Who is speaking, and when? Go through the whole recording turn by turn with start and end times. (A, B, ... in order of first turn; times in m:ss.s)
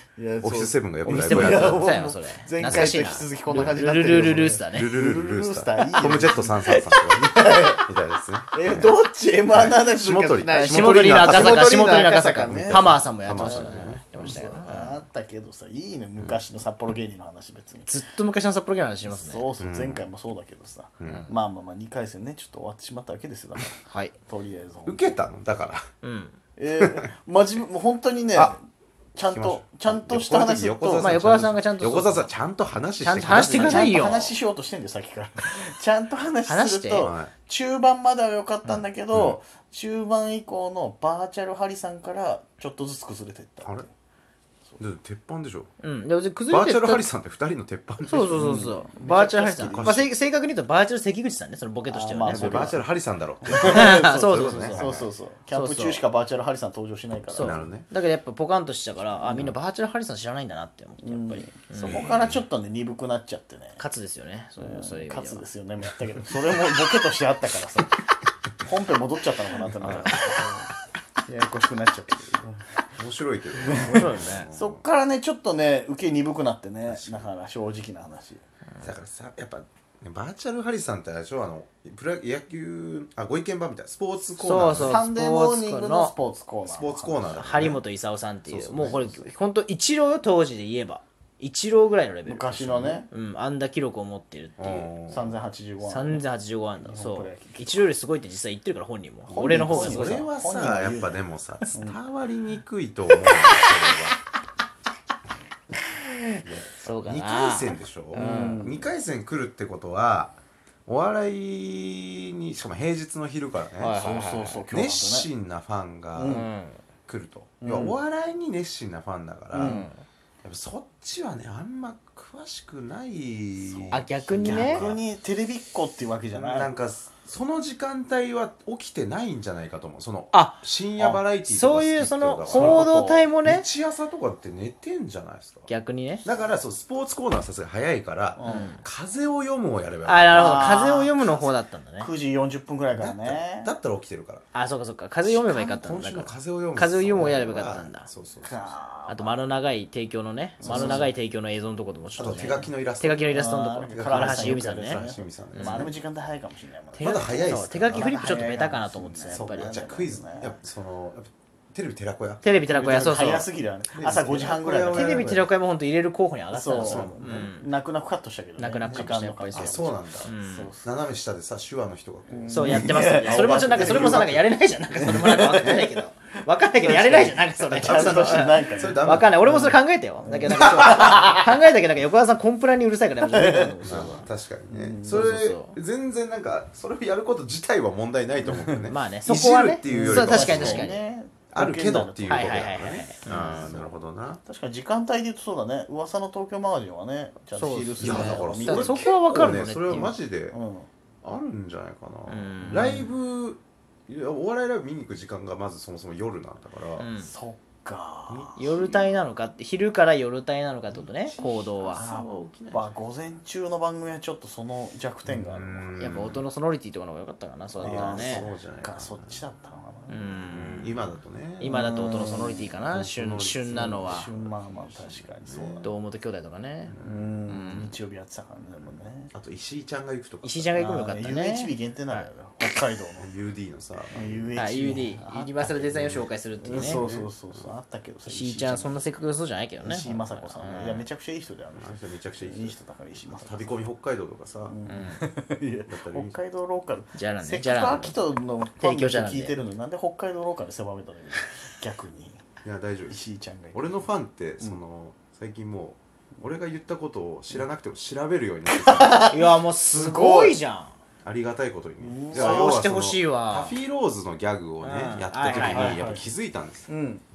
0:00.2-0:07.8 A
0:00.4-0:01.9 B
0:01.1-0:04.9 C
0:03.5-0:08.9 B
0:06.6-0:07.7 C
0:08.5-0:17.9 A
0:09.5-0:14.3 B
0:10.4-0:15.0 C
0:17.9-0:19.5 C
0:19.1-0:25.0 A
0:19.6-0:20.1 B
0:21.0-0:21.2 B
0:23.8-0:24.1 C
0:24.8-0:25.9 B
0:26.0-0:26.4 C
0:26.6-0:28.6 A
0:29.2-0:31.2 A
0:29.2-0:33.9 B
0:31.0-0:32.3 C
0:33.0-0:34.4 C
0:33.4-0:43.9 A
0:36.4-0:37.1 C
0:37.0-0:37.3 B
0:39.1-0:39.4 B
0:44.8-0:45.7 B
0:45.8-0:47.0 C
0:46.5-0:48.7 B
0:48.0-0:52.8 C
0:48.3-0:50.0 A
0:49.6-0:50.1 B
0:51.9-0:52.8 A
0:52.2-0:54.9 B
0:53.4-0:57.6 A
0:53.5-0:56.0 C
0:57.3-1:02.0 C
0:57.4-0:57.9 B
0:59.2-0:59.5 A
1:01.0-1:03.8 A
1:01.8-1:02.4 B
1:03.8-1:05.4 C
1:04.6-1:07.9 A
1:08.6-1:10.7 A
1:09.8-1:10.2 B
1:11.2-1:12.6 A
1:12.9-1:14.8 B
1:13.6-1:18.4 A
1:13.7-1:14.5 C
1:16.9-1:17.3 B
1:18.8-1:25.0 B
1:24.4-1:26.1 C
1:24.7-1:27.5 A
1:26.6-1:27.8 B
1:27.3-1:34.9 C
1:28.5-1:29.3 B
1:32.2-1:33.1 A
1:34.6-1:35.3 B
1:35.1-1:36.2 A
1:35.8-1:40.3 C
1:36.8-1:37.9 A
1:39.3-1:44.1 B
1:39.3-1:41.2 A
1:43.1-1:44.1 C
1:46.0-1:48.7 C
1:46.4-1:54.1 B
1:48.1-1:48.9 A
1:53.8-1:54.6 C
1:53.9-1:55.3 A
1:54.7-1:56.4 B
1:56.1-1:56.5 A
1:56.2-1:56.8 C
1:57.0-1:59.8 B
1:57.6-1:58.0 A
1:59.5-1:59.9 A
1:59.6-2:00.0 C
2:00.4-2:05.0 B
2:03.6-2:06.7 A
2:03.9-2:04.9 C
2:06.3-2:15.7 B
2:10.3-2:10.6 C
2:11.4-2:13.7 C
2:12.5-2:13.2 A
2:15.7-2:16.2 C
2:16.2-2:20.9 B
2:18.4-2:18.7 A
2:18.4-2:18.8 C
2:20.0-2:22.1 C
2:20.3-2:23.7 A
2:22.9-2:24.4 B
2:24.5-2:28.1 C
2:25.2-2:28.8 B
2:28.4-2:29.4 A
2:29.1-2:36.0 C
2:30.6-2:31.1 A
2:30.6-2:31.1 B
2:32.1-2:32.7 A
2:32.1-2:33.3 B
2:33.3-2:40.6 A
2:33.9-2:36.0 B
2:36.9-2:39.8 C
2:37.0-2:38.3 B
2:39.3-2:42.4 B
2:42.4-2:43.5 C
2:42.6-2:45.5 A
2:43.9-2:45.4 B
2:44.8-2:47.6 C
2:46.5-2:50.9 A
2:46.8-2:47.5 B
2:48.6-2:50.7 C
2:48.9-2:56.0 B
2:52.3-2:54.3 A
2:52.5-3:04.1 C
2:55.0-2:55.8 A
2:56.8-3:01.3 A
2:57.7-2:59.4 B
3:00.5-3:01.0 B
3:03.2-3:05.2 A
3:03.8-3:10.9 B
3:05.1-3:05.8 C
3:08.4-3:08.9 A
3:08.8-3:11.0 C
3:09.8-3:19.1 A
3:11.5-3:14.4 B
3:12.3-3:13.7 C
3:17.5-3:20.1 C
3:18.0-3:20.6 B
3:20.0-3:20.9 A
3:21.2-3:27.1 B
3:22.3-3:23.1 C
3:27.0-3:27.3 C
3:27.2-3:28.7 A
3:28.3-3:29.1 B
3:28.6-3:32.0 C
3:31.2-3:32.9 B
3:32.0-3:36.2 A
3:35.2-3:36.4 B
3:36.0-3:38.4 C
3:37.8-3:40.4 A
3:37.8-3:39.4 B
3:40.1-3:44.3 C
3:40.5-3:42.0 B
3:41.6-3:42.8 A
3:42.8-3:45.9 B
3:44.0-3:45.9 A
3:45.8-3:47.0 C
3:46.9-3:47.3 B
3:47.0-3:49.3 A
3:47.5-3:48.0 C
3:49.3-3:50.7 B
3:50.4-3:52.3 C
3:50.7-3:53.3 A
3:53.2-3:54.5 B
3:54.1-3:59.0 A
3:54.5-3:57.0 C
3:56.7-3:57.3 B
3:58.2-4:01.0 C
3:59.8-4:03.8 A
4:00.0-4:00.9 B
4:01.7-4:04.8 B
4:04.6-4:12.4 A
4:04.8-4:05.2 C
4:05.8-4:06.4 B
4:07.1-4:08.1 C
4:08.8-4:09.5 C
4:12.6-4:13.2 B
4:13.1-4:13.9 A
4:13.7-4:19.3 B
4:18.7-4:20.9 C
4:19.0-4:19.3 A
4:19.9-4:20.6 A
4:21.2-4:26.9 B
4:22.0-4:22.8 A
4:22.3-4:23.8 C
4:24.8-4:26.0 C
4:25.4-4:26.3 A
4:26.9-4:27.2 A